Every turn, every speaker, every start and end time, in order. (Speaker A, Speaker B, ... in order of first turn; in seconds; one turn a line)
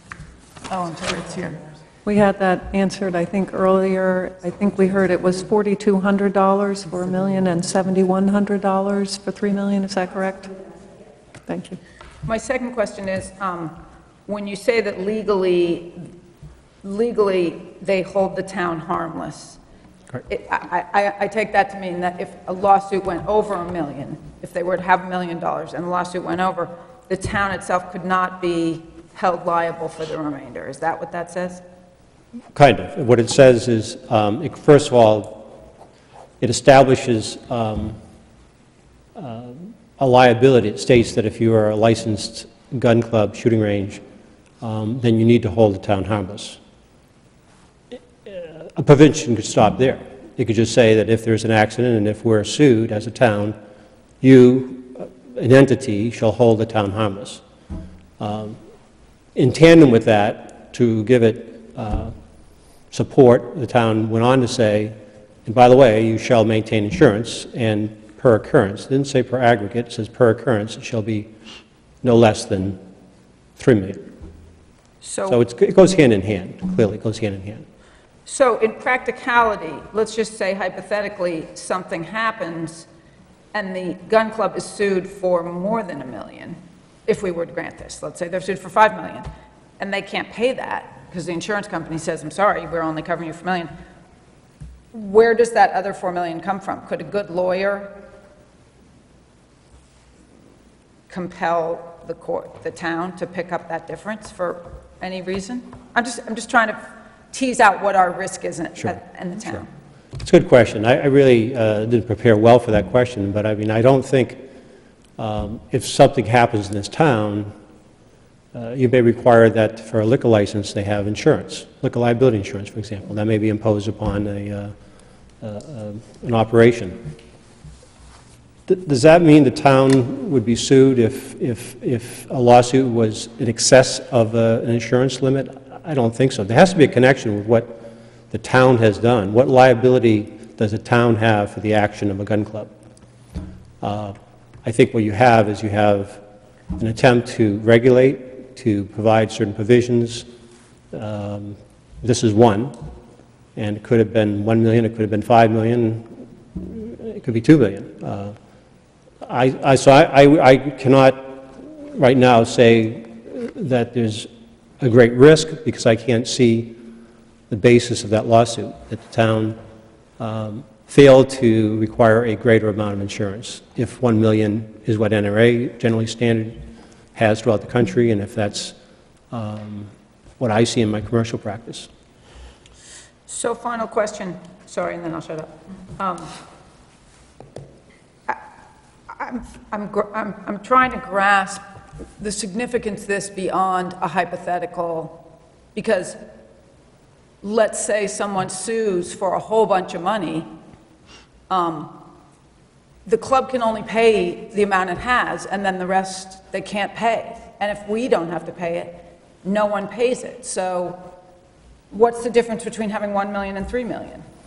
Speaker A: 0.7-1.6
Speaker B: 2.0-10.5
Speaker B: 11.5-11.8
Speaker A: 12.2-16.1
Speaker A: 16.8-19.6
Speaker A: 20.3-31.6
Speaker C: 32.5-35.6
Speaker C: 36.4-38.0
Speaker C: 39.2-44.0
Speaker C: 44.6-46.6
Speaker C: 48.3-53.6
Speaker C: 54.2-57.4
Speaker C: 58.2-58.6
Speaker C: 59.4-62.2
Speaker C: 62.9-71.3
Speaker C: 72.0-72.8
Speaker C: 73.6-74.1
Speaker A: 75.0-75.4
Speaker C: 75.2-77.7
Speaker A: 78.3-82.9
Speaker A: 83.5-93.7
Speaker A: 94.9-97.9
Speaker A: 101.1-106.8
Speaker A: 107.3-109.7
Speaker C: 108.8-109.7
Speaker C: 110.2-114.4
Speaker C: 115.2-117.5
Speaker C: 118.5-124.8
Speaker C: 125.4-127.1
Speaker C: 128.7-142.7
Speaker C: 143.8-146.2
Speaker C: 146.8-150.3
Speaker C: 150.9-152.8
Speaker C: 153.6-158.4
Speaker C: 159.2-164.3
Speaker C: 164.8-166.8
Speaker C: 167.5-169.6
Speaker C: 170.2-178.8
Speaker C: 179.3-181.9
Speaker A: 183.3-186.3
Speaker A: 189.1-191.6
Speaker A: 192.2-195.2
Speaker A: 195.8-196.2
Speaker A: 197.4-200.5
Speaker A: 201.5-202.0
Speaker A: 203.1-211.0
Speaker A: 211.9-214.3